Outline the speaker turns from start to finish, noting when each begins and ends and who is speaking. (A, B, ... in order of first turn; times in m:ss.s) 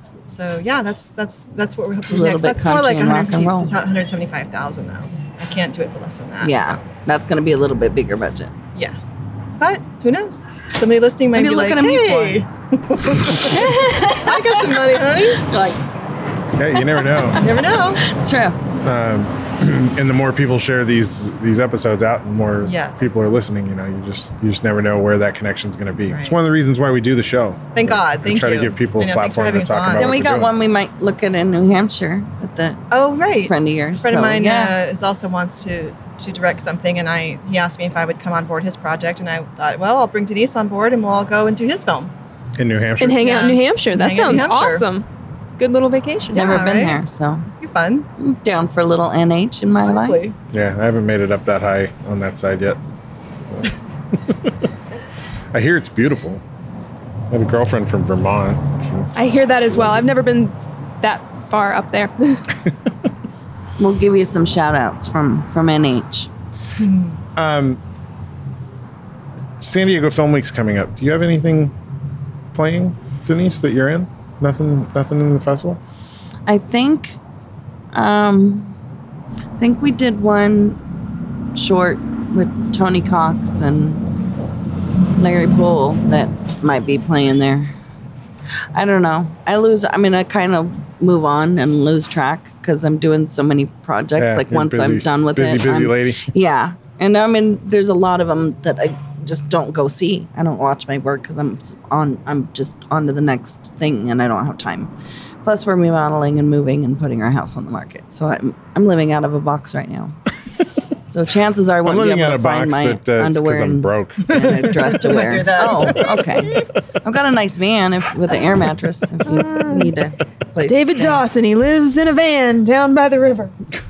0:00.3-0:06.8 A
0:02.0-0:03.8 B
0:06.4-0:08.5 B
0:09.6-0:15.4 A
0:11.3-0:12.4 B
0:13.5-0:14.4 C
0:15.4-0:15.8 B
0:16.6-0:17.5 D
0:17.4-0:18.0 A
0:18.0-0:18.6 B
0:18.8-0:30.5 D
0:22.6-0:23.3 A
0:26.1-0:26.4 A
0:27.7-0:30.2 A
0:29.9-0:32.8 B
0:32.9-0:42.1 A
0:33.4-0:34.8 B
0:42.6-0:43.3 D
0:43.0-0:45.1 C
0:43.2-0:44.9 A
0:45.6-0:46.8 C
0:46.3-0:47.5 B
0:46.4-0:48.1 A
0:48.2-0:50.2 B
0:49.8-0:50.4 A
0:50.5-0:52.8 D
0:55.5-0:56.4 D
0:57.3-0:59.1 D
0:59.2-1:02.4 C
0:59.7-1:00.0 D
1:03.8-1:06.3 B
1:06.8-1:07.2 A
1:07.4-1:07.8 D
1:09.6-1:11.7 D
1:12.5-1:15.8 D
1:16.5-1:17.2 B
1:17.9-1:18.8 B
1:19.6-1:20.8 B
1:21.6-1:24.0 B
1:25.2-1:27.7 B
1:28.7-1:44.9 B
1:34.2-1:36.2 D
1:45.4-1:50.2 B
1:51.1-2:01.3 B
1:51.8-1:54.6 D
1:54.3-1:56.4 A
1:59.3-1:59.9 C
2:00.6-2:03.5 C